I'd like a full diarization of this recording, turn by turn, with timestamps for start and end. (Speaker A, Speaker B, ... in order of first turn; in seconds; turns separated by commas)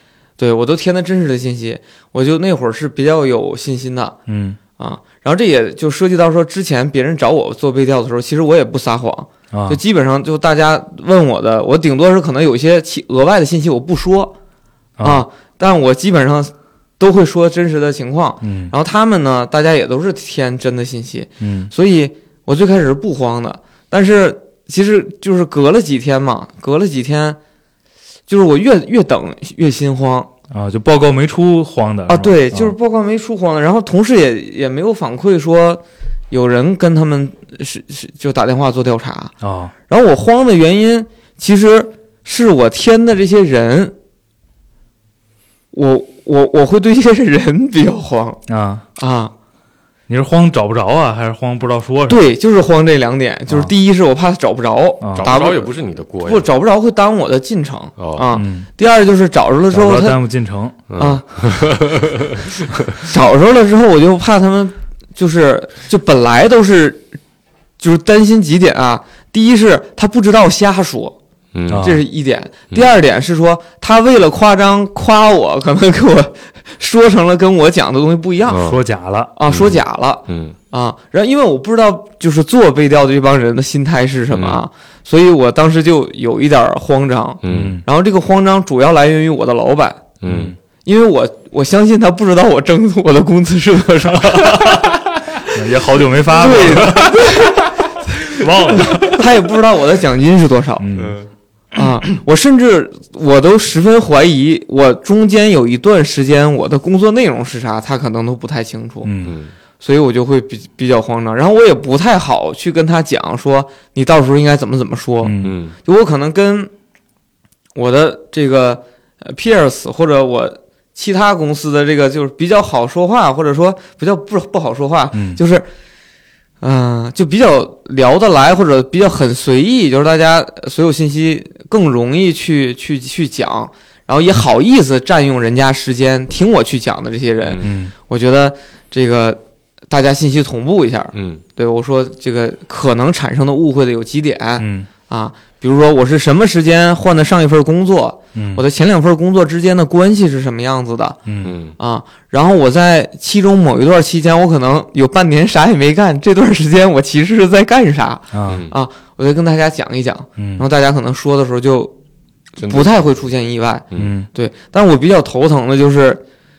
Speaker A: 0.4-4.2, Speaker B: 4.3-4.6, Speaker A: 4.8-14.3, Speaker B: 9.5-9.8, Speaker B: 15.0-15.2, Speaker A: 15.0-27.4, Speaker B: 18.4-18.7, Speaker B: 21.4-21.7, Speaker A: 28.3-30.3, Speaker B: 30.5-32.7, Speaker A: 32.1-39.3, Speaker B: 39.4-39.7, Speaker A: 39.9-43.9, Speaker A: 45.7-48.4, Speaker B: 48.5-48.8, Speaker A: 49.0-49.3, Speaker B: 50.1-52.2, Speaker A: 52.1-55.7, Speaker B: 55.0-55.3, Speaker C: 55.2-56.5, Speaker A: 56.2-60.2, Speaker C: 58.0-58.3, Speaker B: 58.3-58.7, Speaker B: 59.7-60.8, Speaker C: 60.9-62.8, Speaker A: 61.0-61.2, Speaker A: 62.9-67.1, Speaker A: 67.8-71.2, Speaker C: 71.5-71.9, Speaker B: 71.7-72.0, Speaker A: 71.8-78.7, Speaker C: 78.5-78.8, Speaker B: 78.6-79.3, Speaker A: 79.3-90.0, Speaker C: 79.5-80.5, Speaker C: 84.3-84.6, Speaker C: 87.4-87.8, Speaker B: 87.5-87.8, Speaker C: 90.2-90.5, Speaker B: 90.2-90.5, Speaker A: 90.8-95.0, Speaker B: 94.5-94.9, Speaker B: 95.4-97.2, Speaker A: 96.3-97.6, Speaker B: 98.3-99.2, Speaker A: 98.7-100.8, Speaker B: 100.8-101.2, Speaker C: 100.9-101.3, Speaker A: 101.7-109.1, Speaker B: 109.0-109.3, Speaker C: 109.2-109.5, Speaker A: 109.8-116.7, Speaker B: 115.2-115.6, Speaker C: 115.4-115.7, Speaker A: 117.7-125.7, Speaker B: 125.1-125.4, Speaker A: 126.6-151.2, Speaker C: 137.4-137.7, Speaker B: 137.6-137.9, Speaker C: 141.1-141.4, Speaker B: 144.6-144.9, Speaker B: 148.3-148.6, Speaker B: 151.2-151.6, Speaker C: 151.4-151.8, Speaker A: 151.8-161.9, Speaker B: 158.3-158.6, Speaker C: 158.4-158.8, Speaker B: 160.4-160.6, Speaker C: 162.6-163.0, Speaker A: 162.6-166.2, Speaker B: 163.9-164.3